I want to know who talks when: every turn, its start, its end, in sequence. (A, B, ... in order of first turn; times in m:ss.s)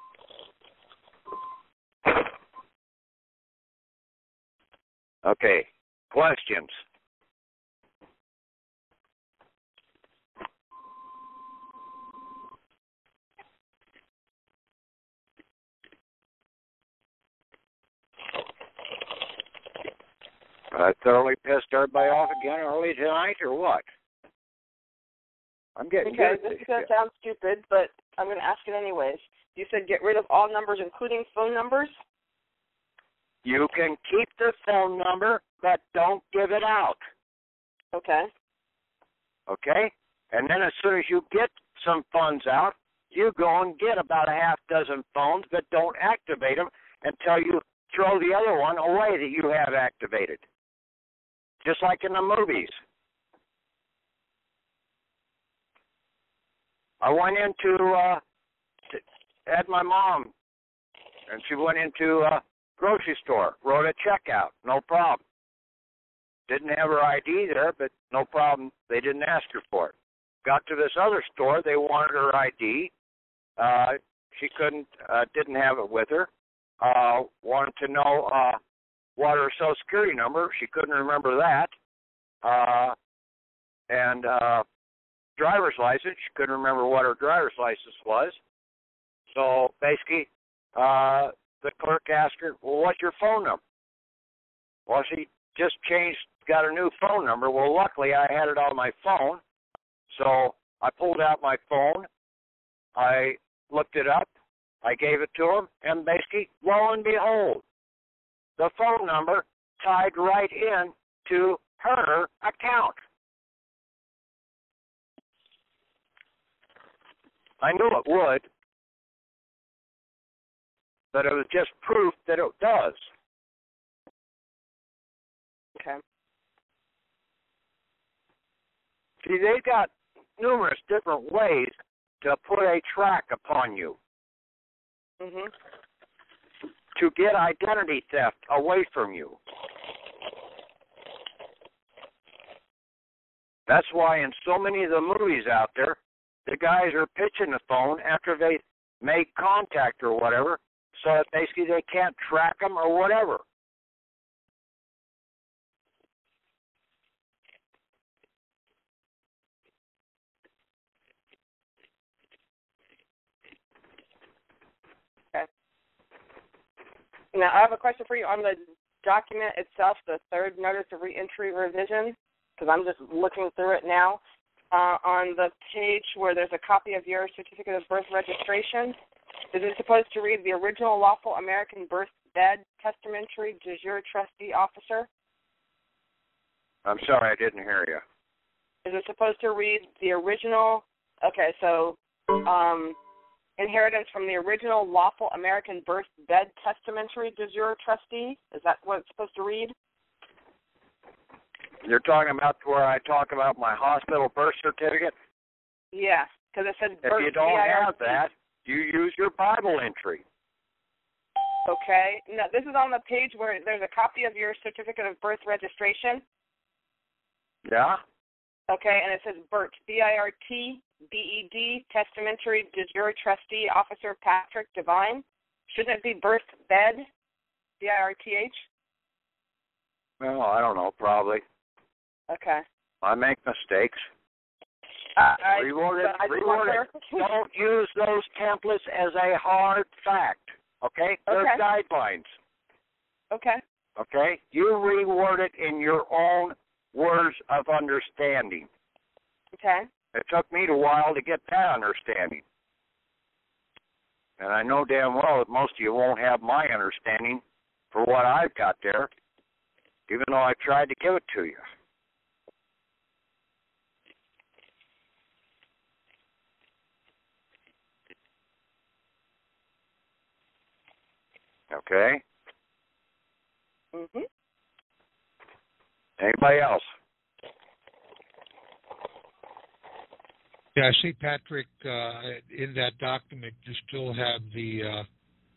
0:05.2-0:06.7 A
0:20.7-0:23.8 A
0:25.8-0:26.9 A
0:26.0-0:31.9 B
0:33.4-0:37.0 A
0:37.9-0:38.3 B
0:39.5-0:50.4 A
0:51.6-0:52.8 A
0:57.0-0:58.2 A
0:58.9-1:00.3 A
1:01.3-1:05.2 A
1:06.5-1:09.9 A
1:10.4-1:12.9 A
1:13.6-1:16.3 A
1:16.8-1:18.6 A
1:19.2-1:21.7 A
1:22.4-1:23.0 A
1:23.9-1:24.6 A
1:25.4-1:28.4 A
1:29.3-1:33.6 A
1:34.9-1:39.4 A
1:40.1-1:42.1 A
1:43.0-1:44.3 A
1:44.8-1:47.6 A
1:48.6-1:53.0 A
1:57.6-1:58.4 A
2:01.1-2:03.1 A
2:05.8-2:06.0 B
2:09.2-2:14.0 A
2:15.2-2:15.5 B
2:17.0-2:19.4 A
2:23.7-2:33.4 A
2:47.3-2:59.0 B
2:59.5-3:05.1 B
3:06.8-3:08.0 A
3:08.8-3:13.0 B
3:13.6-3:19.7 B
3:21.8-3:25.1 A
3:25.9-3:28.2 B
3:27.0-3:30.2 A
3:31.7-3:36.2 B
3:37.7-3:38.0 A
3:38.7-3:47.1 B
3:47.8-3:48.6 B
3:50.2-3:51.4 A
3:52.3-3:52.6 B
3:53.0-3:54.0 A
3:55.2-3:57.3 B
3:55.5-4:02.2 A
4:01.3-4:01.6 B
4:03.3-4:03.6 B
4:04.0-4:08.7 A
4:09.6-4:09.9 B
4:10.1-4:12.4 A
4:14.4-4:17.4 A
4:17.9-4:19.1 A
4:20.1-4:21.6 A
4:31.7-4:32.2 A
4:33.9-4:34.3 B
4:36.2-4:36.9 A
4:40.8-4:45.0 C